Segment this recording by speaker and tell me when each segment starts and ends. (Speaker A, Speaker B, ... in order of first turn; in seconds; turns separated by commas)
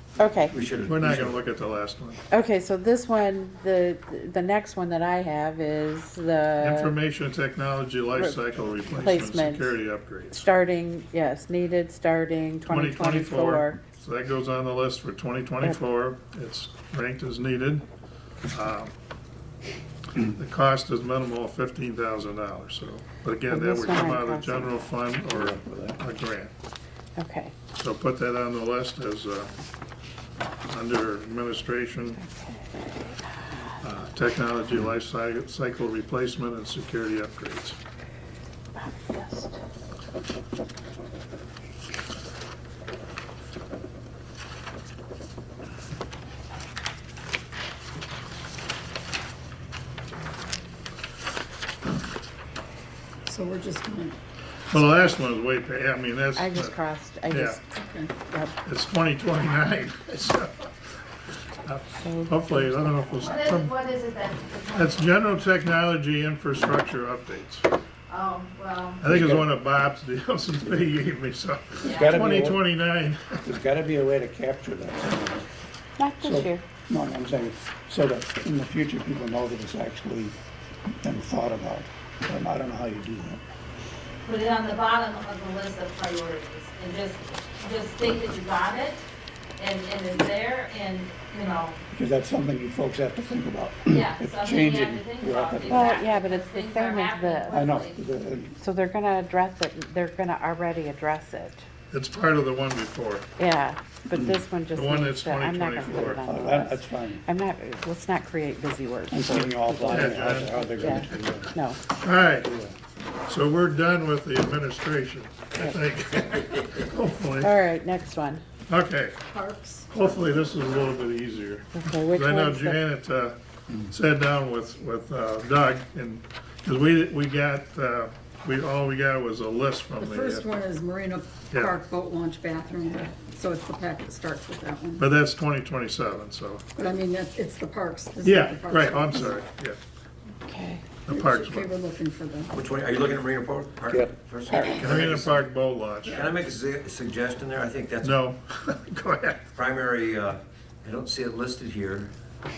Speaker A: 0.2-0.6, Speaker B: 0.5-1.4, Speaker C: 0.8-2.2, Speaker A: 2.3-7.0, Speaker C: 6.6-10.4, Speaker A: 8.2-9.8, Speaker A: 10.3-13.8, Speaker C: 12.7-17.9, Speaker C: 18.5-18.9, Speaker C: 20.2-26.5, Speaker A: 23.5-24.9, Speaker D: 25.3-26.0, Speaker A: 27.2-27.6, Speaker C: 27.7-29.5, Speaker C: 30.7-32.2, Speaker A: 32.1-33.8, Speaker C: 33.8-37.8, Speaker A: 38.8-39.6, Speaker E: 53.3-54.2, Speaker C: 54.7-56.8, Speaker A: 56.3-57.6, Speaker C: 57.3-57.6, Speaker E: 57.8-58.2, Speaker A: 58.2-58.5, Speaker C: 58.6-60.7, Speaker C: 61.6-63.8, Speaker A: 61.9-63.3, Speaker F: 63.2-64.9, Speaker C: 64.7-67.7, Speaker F: 68.1-69.0, Speaker C: 69.0-73.4, Speaker D: 69.0-69.5, Speaker D: 71.8-72.6, Speaker F: 71.8-72.1, Speaker D: 73.5-75.4, Speaker A: 76.0-76.6, Speaker D: 76.2-80.3, Speaker D: 81.0-83.4, Speaker F: 84.2-89.0, Speaker F: 89.6-91.8, Speaker D: 91.9-96.0, Speaker F: 93.9-98.0, Speaker A: 95.7-97.7, Speaker D: 97.5-98.6, Speaker A: 98.6-101.7, Speaker C: 101.9-103.3, Speaker A: 103.4-111.8, Speaker D: 104.2-104.4, Speaker C: 104.7-106.2, Speaker D: 105.9-107.2, Speaker D: 109.1-111.6, Speaker C: 109.9-111.1, Speaker C: 111.9-112.5, Speaker D: 112.4-112.7, Speaker C: 113.3-117.5, Speaker A: 115.6-115.8, Speaker A: 117.3-118.4, Speaker C: 118.7-119.2, Speaker E: 119.3-119.9, Speaker C: 119.9-130.5, Speaker A: 121.7-122.8, Speaker E: 130.0-135.1, Speaker C: 131.5-131.8, Speaker A: 132.8-133.1, Speaker C: 135.0-136.6, Speaker E: 136.8-139.4, Speaker C: 138.2-139.8, Speaker A: 140.5-141.0, Speaker C: 141.1-141.7, Speaker E: 141.1-142.5, Speaker B: 142.5-145.5, Speaker D: 143.9-144.9, Speaker C: 144.8-146.3, Speaker B: 146.1-148.2, Speaker C: 148.0-149.4, Speaker B: 149.6-152.1